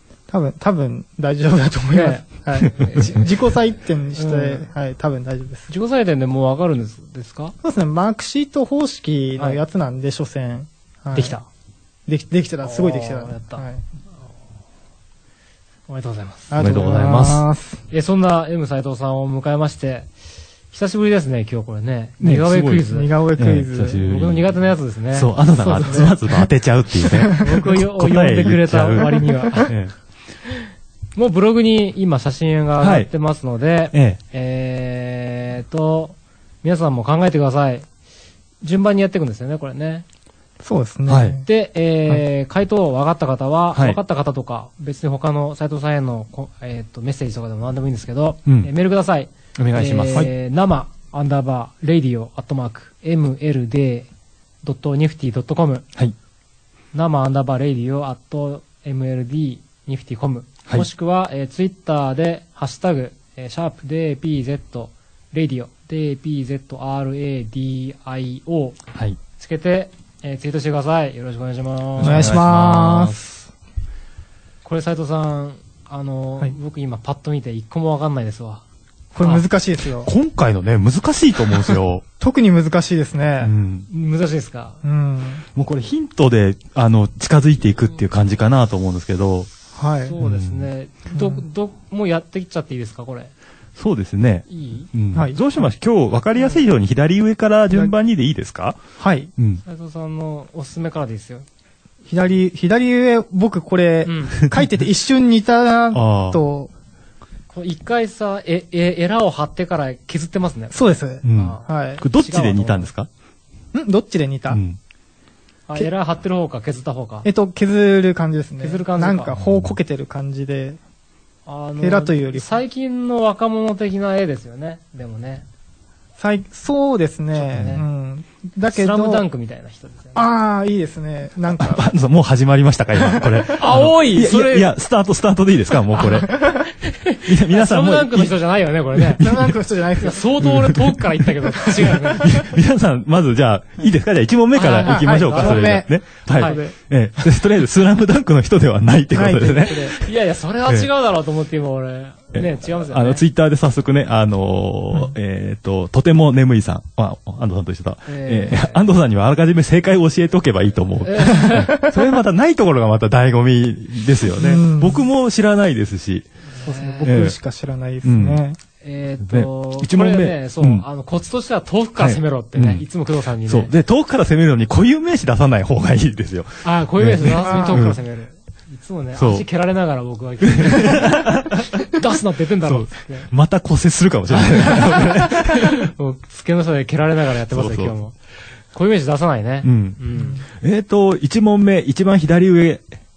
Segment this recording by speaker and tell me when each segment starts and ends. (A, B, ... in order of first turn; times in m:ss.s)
0:00.3-0:05.7 A
0:01.9-0:03.2 B
0:04.1-0:04.7 B
0:05.7-0:07.5 B
0:07.6-0:11.4 A
0:11.1-0:11.4 B
0:12.1-0:13.8 A
0:12.6-0:13.6 B
0:15.9-0:20.1 B
0:16.5-0:17.8 A
0:16.6-0:17.4 C
0:20.7-0:23.1 B
0:22.2-0:24.6 C
0:22.9-0:24.0 A
0:23.9-0:26.1 B
0:25.1-0:29.9 C
0:25.6-0:27.6 A
0:27.3-0:29.7 B
0:29.1-0:29.5 A
0:30.5-0:37.9 B
0:32.8-0:33.1 C
0:33.9-0:34.2 C
0:38.6-0:40.0 B
0:40.6-0:41.4 A
0:41.1-0:41.4 C
0:41.4-0:54.1 B
0:43.7-0:44.0 C
0:49.6-0:50.3 C
0:54.6-0:55.8 B
0:56.9-1:08.8 B
1:09.4-1:12.4 B
1:12.0-1:13.5 C
1:12.0-1:13.2 A
1:14.6-1:18.6 B
1:19.1-1:20.1 A
1:20.0-1:22.0 C
1:22.2-1:23.5 A
1:23.4-1:23.9 C
1:23.9-1:24.8 B
1:24.8-1:25.4 A
1:25.5-1:29.5 C
1:29.7-1:30.2 A
1:30.0-1:33.3 B
1:30.2-1:30.7 C
1:31.1-1:31.4 A
1:33.8-1:38.8 C
1:34.5-1:34.9 B
1:35.1-1:35.4 A
1:39.0-1:39.3 A
1:39.4-1:39.6 C
1:39.6-1:41.4 B
1:42.1-1:46.7 A
1:44.0-1:44.4 B
1:44.4-1:44.7 C
1:45.9-1:46.4 C
1:47.5-1:52.9 B
1:50.7-1:52.0 A
1:51.2-1:53.1 C
1:53.7-1:54.6 A
1:54.5-1:54.8 C
1:55.7-1:57.3 B
1:57.2-2:00.8 A
1:58.6-1:59.4 B
1:59.4-1:59.7 C
2:01.4-2:05.4 B
2:01.8-2:02.6 A
2:06.2-2:09.2 A
2:07.4-2:07.8 B
2:07.5-2:07.8 C
2:08.7-2:10.3 B
2:10.1-2:11.9 A
2:11.6-2:16.4 C
2:13.0-2:13.4 A
2:13.5-2:14.7 B
2:15.9-2:19.2 B
2:17.2-2:18.3 C
2:18.9-2:19.5 C
2:19.2-2:20.2 A
2:20.0-2:22.4 B
2:20.4-2:30.1 C
2:24.5-2:25.8 B
2:24.8-2:26.7 A
2:26.3-2:26.6 B
2:29.1-2:29.9 A
2:29.8-2:33.2 B
2:30.6-2:30.9 C
2:32.3-2:46.2 C
2:38.1-2:38.8 B
2:41.0-2:41.8 B
2:41.4-2:42.0 A
2:44.3-2:45.0 A
2:46.5-2:47.1 B
2:46.6-2:48.6 A
2:47.0-2:47.4 C
2:48.0-2:48.4 C
2:48.8-2:53.7 B
2:49.2-2:50.8 C
2:52.0-2:52.8 C
2:53.4-2:58.0 C
2:56.6-3:03.3 B
2:57.4-2:58.0 A
2:59.1-2:59.4 C
3:00.4-3:01.9 C
3:02.6-3:05.9 C
3:04.6-3:08.1 B
3:07.5-3:08.0 C
3:08.7-3:10.4 B
3:09.6-3:12.8 C
3:10.2-3:10.4 A